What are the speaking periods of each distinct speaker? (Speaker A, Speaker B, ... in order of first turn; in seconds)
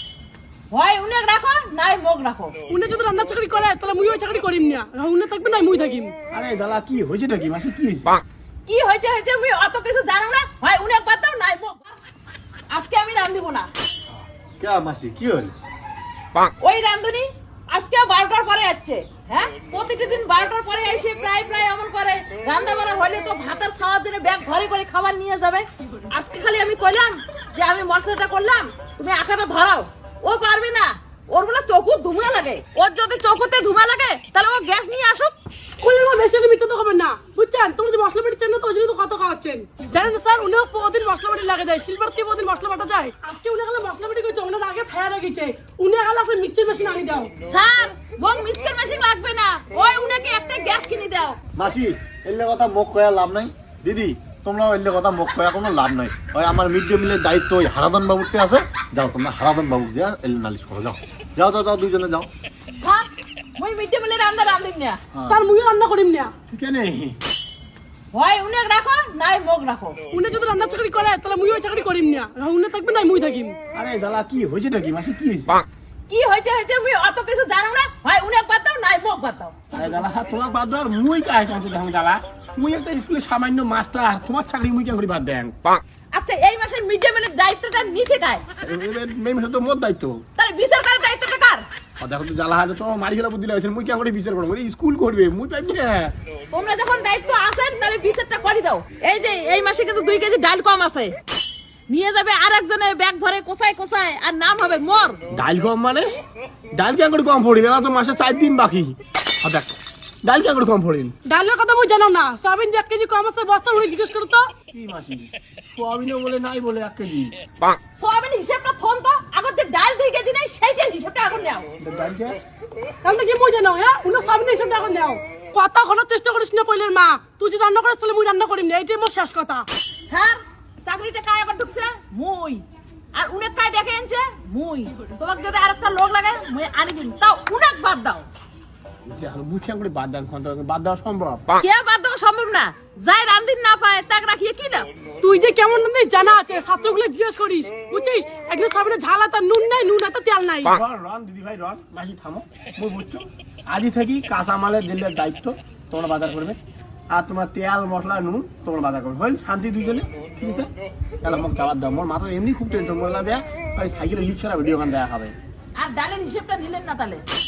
Speaker A: 0.7-2.5, 8.7-11.9, 12.7-13.7, 16.6-35.4, 47.4-51.4, 62.8-65.0, 68.1-70.0, 76.1-79.5, 86.1-88.4, 90.4-91.7, 96.5-101.2, 101.9-105.2, 118.0-121.7, 130.1-138.2, 141.6-144.9, 165.8-167.2
Speaker B: 2.7-6.1, 35.8-47.3, 65.2-66.3, 70.1-73.6, 111.2-114.5, 123.0-129.7, 145.2-150.7
Speaker C: 6.3-8.2, 66.5-67.2, 73.7-75.6, 79.7-85.6, 88.6-90.2, 92.0-96.1, 105.3-106.1, 106.7-111.1, 114.7-117.3, 121.8-122.4, 139.1-141.4, 150.7-156.6, 157.1-160.7, 161.2-165.3
Speaker D: 14.6-15.5, 51.5-62.3